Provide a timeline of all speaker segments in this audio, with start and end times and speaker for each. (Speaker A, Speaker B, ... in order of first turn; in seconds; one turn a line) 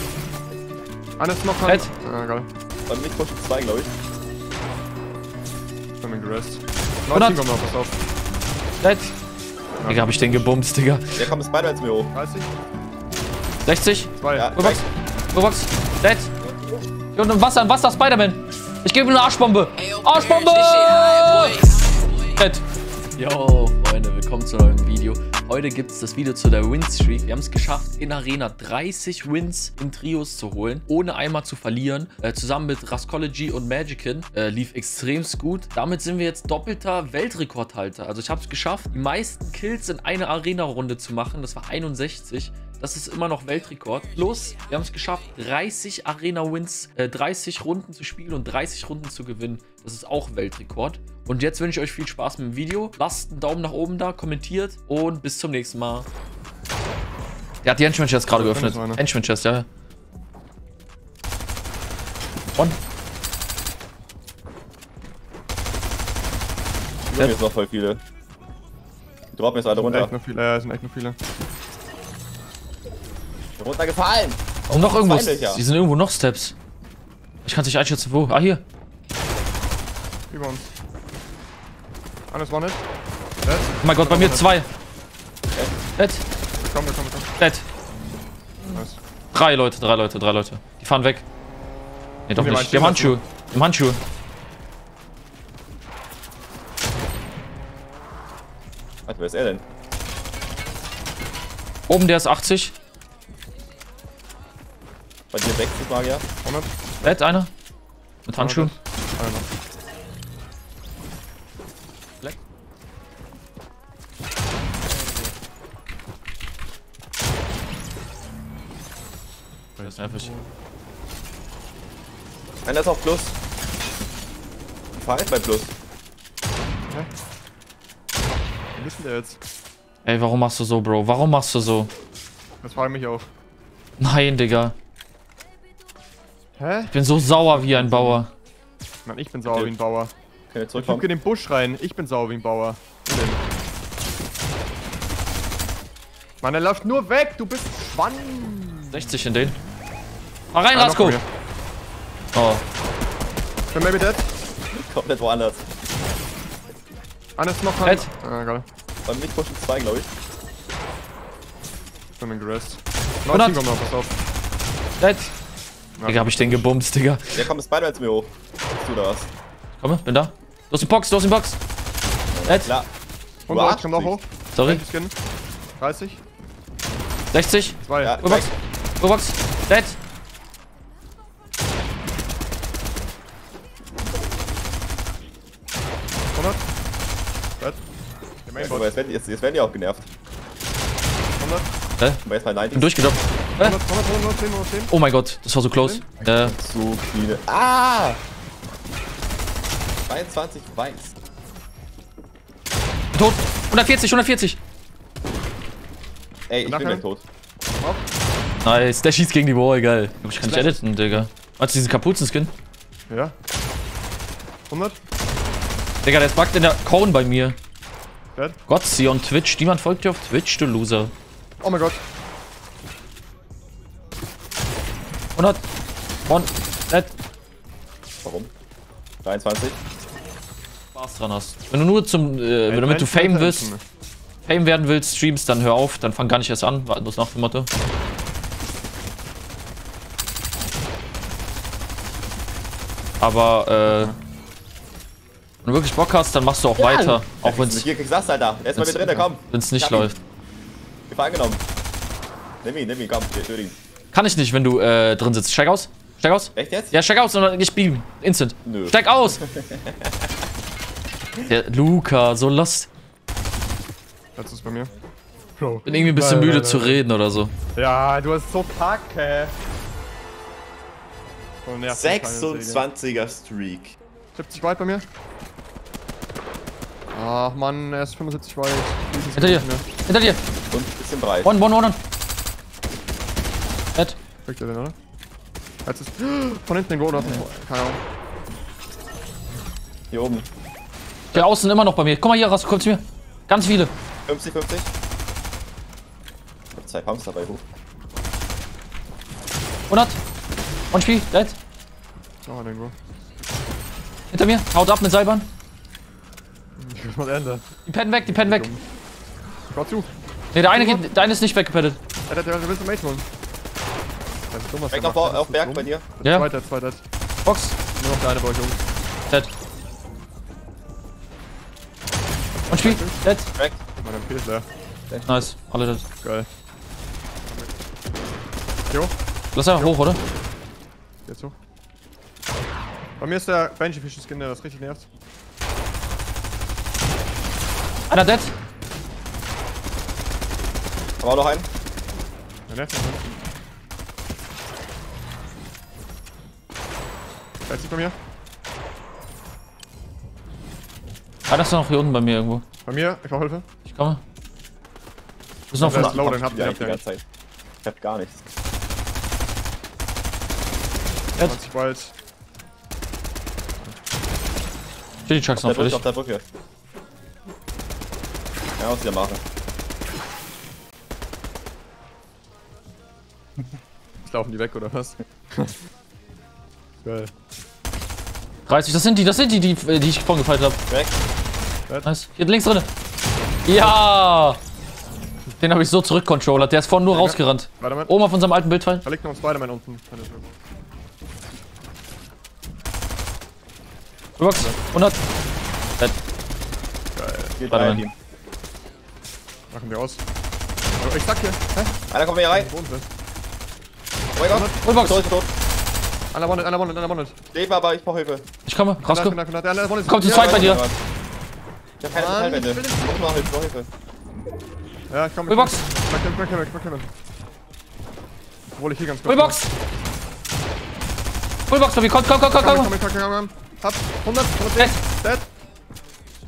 Speaker A: 1.2-2.5
Speaker B: 1.6-1.9
Speaker C: 2.9-3.9
Speaker A: 6.0-8.0
Speaker B: 7.1-7.4
Speaker B: 8.8-9.1
Speaker A: 9.8-10.5
Speaker B: 9.9-11.3
Speaker C: 11.2-12.1
Speaker A: 12.1-12.5
Speaker B: 13.6-16.3
Speaker A: 14.2-14.5
Speaker C: 14.3-14.8
Speaker B: 17.1-22.6
Speaker B: 23.1-56.1
Speaker B: 57.6-59.6
Speaker A: 58.3-59.0
Speaker C: 67.1-68.0
Speaker C: 69.3-70.1
Speaker A: 69.7-71.2
Speaker C: 73.6-75.6
Speaker B: 74.7-76.5
Speaker B: 77.4-78.6
Speaker A: 80.3-80.6
Speaker A: 82.3-82.8
Speaker A: 83.4-84.5
Speaker B: 83.8-84.7
Speaker B: 86.0-86.2
Speaker A: 86.6-87.3
Speaker B: 87.4-87.6
Speaker A: 88.7-89.0
Speaker B: 89.3-91.2
Speaker B: 92.3-94.0
Speaker A: 92.3-93.2
Speaker C: 99.1-99.6
Speaker B: 101.9-102.7
Speaker C: 105.3-106.2
Speaker A: 106.4-106.7
Speaker B: 107.0-107.5
Speaker B: 108.2-108.7
Speaker A: 108.3-109.5
Speaker A: 119.8-120.5
Speaker B: 119.8-120.3
Speaker C: 122.7-123.3
Speaker C: 124.9-125.7
Speaker A: 128.7-129.4
Speaker B: 130.0-131.9
Speaker A: 132.6-133.3
Speaker B: 134.0-134.7
Speaker A: 136.6-138.2
Speaker B: 136.9-138.3
Speaker A: 139.0-140.1
Speaker C: 140.5-141.1
Speaker A: 140.8-143.4
Speaker A: 146.4-149.1
Speaker B: 148.9-149.6
Speaker B: 150.5-151.2
Speaker A: 150.7-151.2
Speaker B: 152.3-152.6
Speaker A: 153.7-154.3
Speaker C: 154.8-155.6
Speaker A: 157.4-158.7
Speaker B: 157.8-158.1
Speaker C: 159.0-160.1
Speaker A: 162.2-164.1
Speaker B: 163.3-163.6
Speaker B: 165.0-165.3
Speaker A: 166.0-166.7
Speaker B: 166.0-167.5
Speaker C: 167.3-169.3
Speaker B: 169.8-171.6
Speaker C: 172.3-172.9
Speaker B: 172.4-172.7
Speaker A: 173.5-175.1
Speaker C: 173.5-174.2
Speaker B: 174.5-174.8
Speaker A: 175.8-176.2
Speaker B: 177.3-180.0
Speaker A: 177.8-178.2
Speaker C: 178.0-178.5
Speaker A: 186.3-186.6
Speaker A: 188.4-189.0
Speaker C: 188.6-190.1
Speaker A: 191.4-191.7
Speaker C: 192.2-193.0
Speaker B: 192.7-193.8
Speaker A: 193.6-194.9
Speaker B: 194.9-196.5
Speaker A: 195.7-196.0
Speaker C: 196.2-198.2
Speaker C: 200.1-201.1
Speaker B: 203.1-204.6
Speaker C: 206.5-207.2
Speaker A: 206.6-207.0
Speaker B: 208.6-212.5
Speaker A: 210.4-210.8
Speaker A: 213.1-213.3
Speaker A: 214.7-215.0
Speaker B: 216.0-217.6
Speaker B: 218.7-221.1
Speaker A: 221.6-222.0
Speaker B: 225.3-225.6
Speaker B: 226.3-227.1
Speaker C: 228.2-228.5
Speaker C: 229.2-229.8
Speaker B: 230.9-233.7
Speaker A: 232.7-233.8
Speaker B: 234.4-237.7
Speaker B: 243.2-244.1
Speaker A: 243.8-244.1
Speaker B: 245.6-247.9
Speaker C: 246.8-250.1
Speaker B: 248.8-250.2
Speaker C: 251.1-251.6
Speaker C: 252.6-253.8
Speaker B: 254.1-259.4
Speaker C: 256.6-256.9
Speaker C: 258.6-260.1
Speaker B: 261.4-262.9
Speaker A: 264.4-264.9
Speaker A: 265.6-267.0
Speaker B: 265.8-267.5
Speaker A: 267.7-269.5
Speaker A: 271.6-272.9
Speaker C: 271.9-273.9
Speaker A: 274.3-275.1
Speaker A: 277.1-279.9
Speaker B: 279.3-280.4
Speaker C: 280.7-281.6
Speaker B: 281.4-282.0
Speaker A: 284.4-284.9
Speaker A: 285.8-288.0
Speaker C: 290.1-290.4
Speaker B: 291.3-293.9
Speaker C: 294.2-294.9
Speaker C: 296.7-297.6
Speaker B: 299.9-300.2
Speaker B: 300.9-301.5
Speaker A: 302.4-302.9
Speaker B: 304.3-305.5
Speaker A: 306.8-307.6
Speaker B: 307.9-308.7
Speaker A: 308.2-308.8
Speaker A: 309.7-310.1
Speaker B: 310.5-312.0
Speaker A: 310.7-311.1
Speaker A: 312.3-313.2
Speaker A: 314.5-317.0
Speaker C: 314.9-316.1
Speaker B: 316.2-316.5
Speaker B: 317.4-317.8
Speaker A: 317.9-318.8
Speaker B: 322.7-323.5
Speaker A: 322.7-323.2
Speaker C: 323.5-323.8
Speaker A: 324.0-324.7
Speaker B: 325.2-326.0
Speaker A: 326.2-326.5
Speaker B: 329.5-330.2
Speaker A: 331.2-331.5
Speaker A: 333.2-335.1
Speaker B: 338.1-338.5
Speaker C: 341.2-341.7
Speaker A: 342.7-343.4
Speaker A: 347.7-348.1
Speaker B: 351.5-352.6
Speaker A: 352.8-353.6
Speaker B: 353.8-354.2
Speaker B: 355.7-356.3
Speaker A: 355.7-357.0
Speaker C: 355.8-357.2
Speaker C: 357.8-358.4
Speaker A: 361.4-362.1
Speaker B: 365.2-366.0
Speaker C: 365.6-366.4
Speaker C: 368.8-369.4
Speaker A: 374.2-375.7
Speaker A: 377.0-377.3
Speaker B: 378.7-380.8
Speaker B: 382.0-382.9
Speaker B: 383.6-384.6
Speaker B: 385.6-389.0
Speaker A: 387.1-388.1
Speaker A: 389.0-390.6
Speaker B: 394.4-395.2
Speaker A: 397.1-397.6
Speaker C: 397.6-398.1
Speaker B: 397.7-398.0
Speaker A: 399.7-400.2
Speaker A: 401.0-401.9
Speaker C: 402.1-402.7
Speaker A: 402.5-403.1
Speaker C: 404.4-405.5
Speaker A: 404.5-404.8
Speaker B: 404.8-405.3
Speaker A: 406.3-407.3
Speaker C: 407.5-408.4
Speaker B: 408.6-409.4
Speaker A: 409.0-410.8
Speaker B: 410.0-410.8
Speaker C: 410.2-411.0
Speaker C: 412.0-413.9
Speaker A: 412.1-412.9
Speaker A: 415.1-417.1
Speaker B: 415.5-415.8
Speaker A: 418.7-419.6
Speaker B: 419.2-419.7
Speaker B: 421.7-422.9
Speaker A: 422.5-425.5